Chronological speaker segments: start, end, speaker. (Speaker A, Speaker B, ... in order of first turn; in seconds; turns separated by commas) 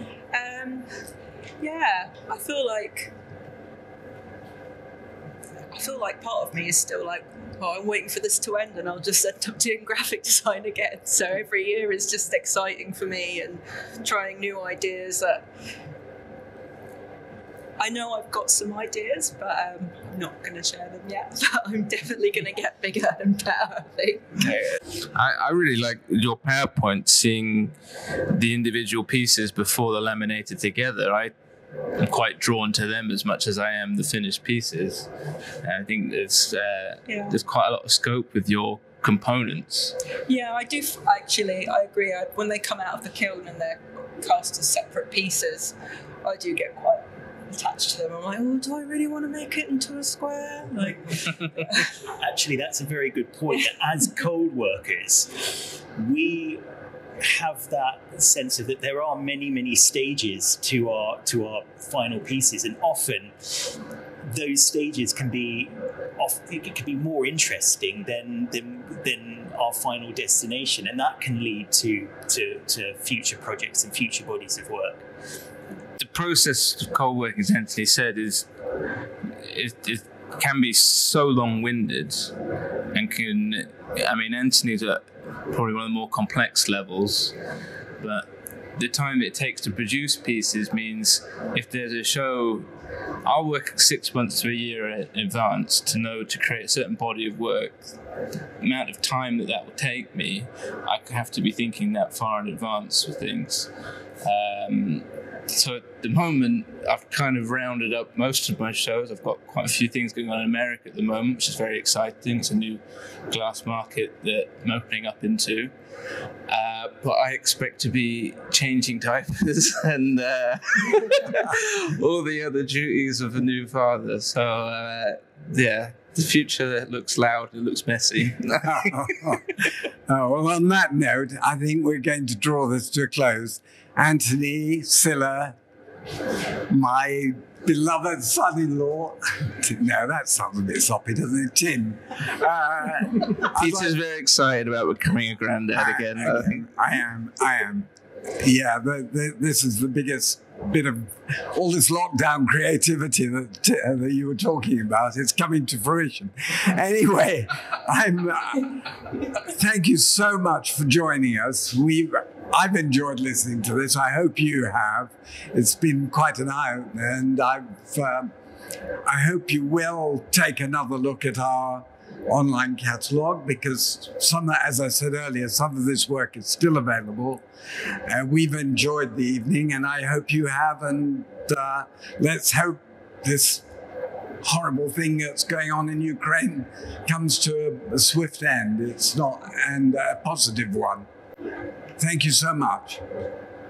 Speaker A: 0.3-0.9, Speaker A: 1.6-3.1, Speaker A: 5.7-15.4, Speaker A: 17.8-24.4, Speaker B: 24.4-27.7, Speaker B: 28.3-31.3, Speaker B: 31.9-35.1, Speaker B: 35.6-40.0, Speaker A: 37.1-37.4, Speaker A: 40.3-51.9, Speaker C: 52.0-56.6, Speaker C: 57.2-75.0, Speaker B: 76.0-78.5, Speaker B: 79.4-82.3, Speaker B: 82.9-87.3, Speaker B: 88.0-92.7, Speaker B: 93.2-97.9, Speaker B: 98.6-103.7, Speaker B: 104.2-115.7, Speaker B: 116.5-129.1, Speaker D: 128.6-135.6, Speaker D: 136.7-144.0, Speaker B: 143.4-146.6, Speaker D: 145.7-168.3, Speaker D: 169.0-177.4, Speaker D: 178.1-183.6, Speaker D: 184.4-191.1, Speaker D: 192.0-193.0